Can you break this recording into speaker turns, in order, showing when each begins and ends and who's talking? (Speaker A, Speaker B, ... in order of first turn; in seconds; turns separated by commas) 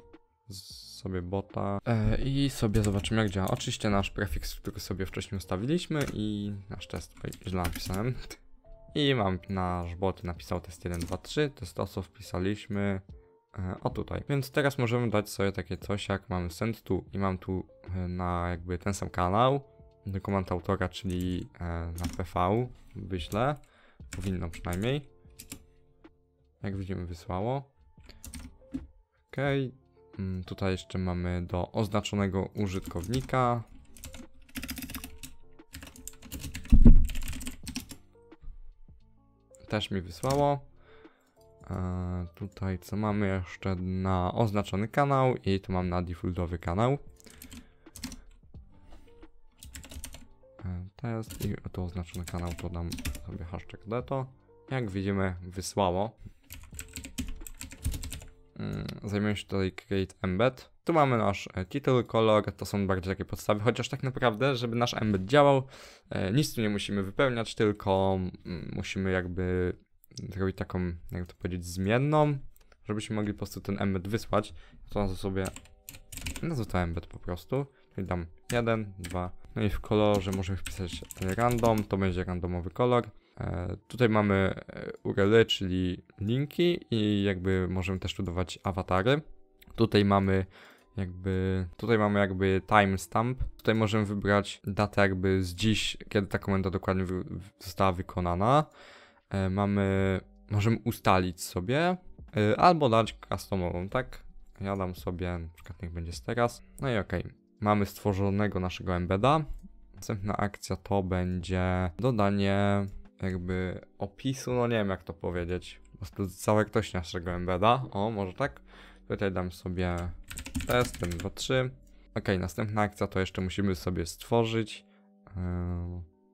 Speaker A: 0.5-8.4, Speaker A: 8.9-13.0, Speaker A: 13.5-23.6, Speaker A: 24.1-25.1, Speaker A: 26.6-27.7, Speaker A: 29.3-33.7, Speaker A: 39.7-40.7, Speaker A: 41.6-47.0, Speaker A: 50.6-56.2, Speaker A: 58.6-75.5, Speaker A: 76.4-89.2, Speaker A: 89.8-98.7, Speaker A: 99.3-109.5, Speaker A: 110.0-126.1